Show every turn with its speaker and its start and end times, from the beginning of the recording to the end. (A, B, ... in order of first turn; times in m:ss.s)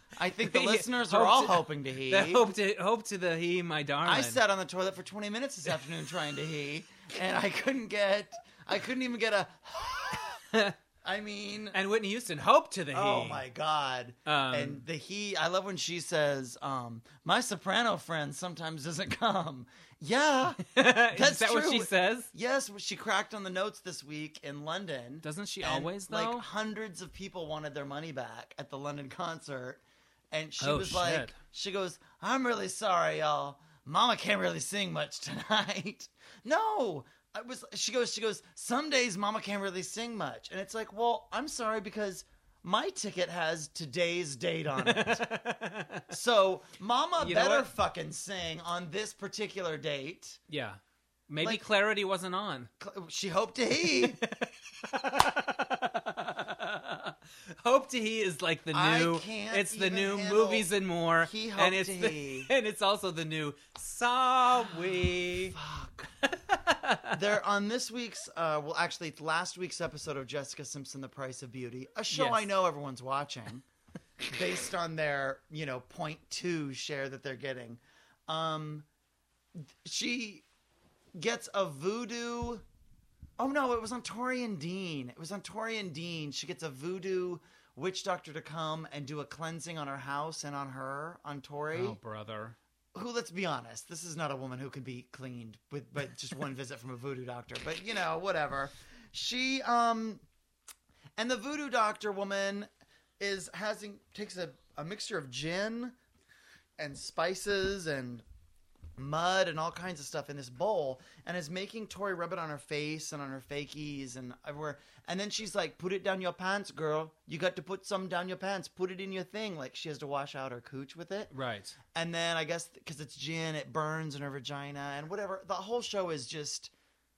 0:00.2-0:02.5 A
0:00.4-0:04.4 B
0:04.0-0:10.4 A
0:10.3-0:10.8 B
0:11.0-0:11.8 A
0:11.7-0:13.4 B
0:12.9-0:45.3 A
0:14.3-0:14.8 B
0:20.6-0:22.3 B
0:25.2-0:26.5 B
0:30.6-0:31.4 B
0:44.8-0:46.1 B
0:46.1-0:50.4 A
0:47.2-0:47.7 B
0:50.5-0:52.7 B
0:52.8-0:54.2 A
0:54.0-1:05.6 B
0:58.7-1:00.7 A
1:01.2-1:02.5 A
1:05.3-1:06.1 A
1:06.2-1:07.2 B
1:07.1-1:13.6 A
1:12.1-1:12.5 B
1:14.2-1:18.9 A
1:19.6-1:20.4 A
1:21.2-1:22.6 A
1:23.4-1:32.0 A
1:31.7-1:32.6 B
1:33.0-1:40.2 A
1:41.2-1:46.0 A
1:46.8-1:48.2 A
1:49.0-2:01.3 A
2:01.3-2:01.8 B
2:01.9-2:06.7 A